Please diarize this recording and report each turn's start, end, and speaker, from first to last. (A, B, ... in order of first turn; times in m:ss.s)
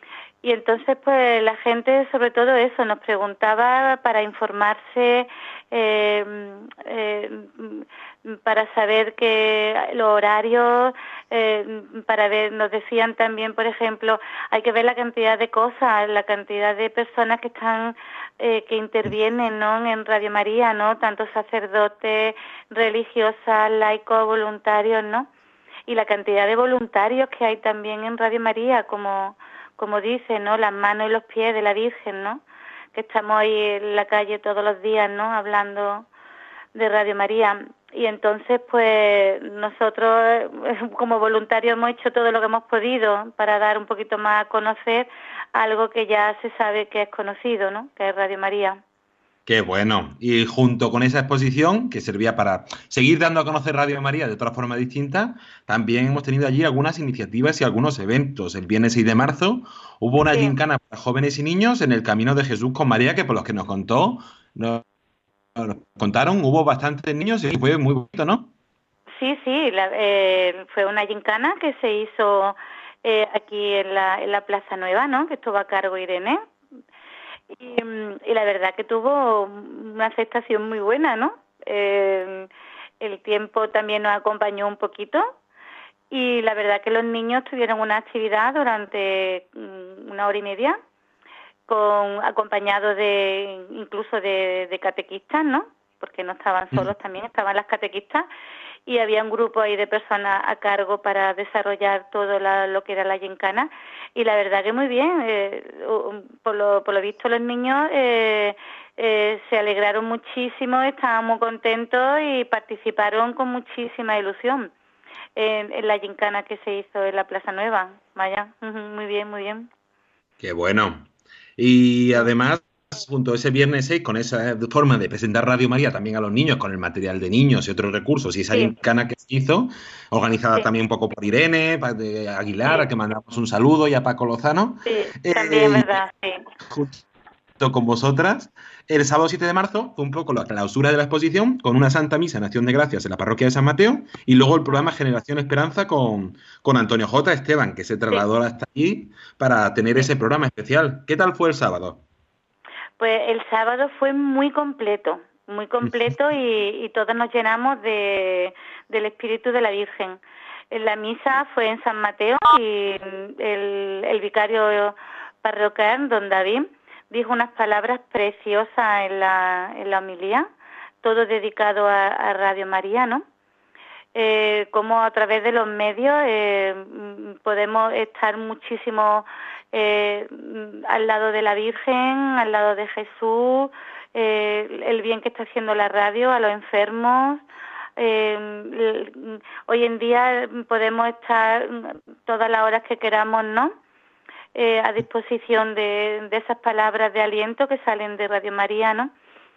0:00.4-0:25.3 A
0:25.9-0:32.4 A
0:33.0-0:36.1 A
0:36.8-0:48.8 A
0:49.5-1:04.8 B
1:05.6-1:08.5 B
1:09.2-1:16.4 A
1:17.5-1:22.5 A
1:23.0-1:25.3 A
1:26.1-1:30.8 A
1:31.7-1:38.3 A
1:38.9-1:54.7 A
1:55.4-1:59.7 A
2:00.4-2:16.0 B
2:14.8-2:16.4 A
2:16.7-2:17.0 B
2:17.6-2:32.0 B
2:33.0-2:40.2 A
2:35.8-2:36.1 B
2:40.7-2:50.5 A
2:51.0-2:53.2 A
2:54.2-3:07.4 A
3:08.0-3:13.7 A
3:14.6-3:19.1 A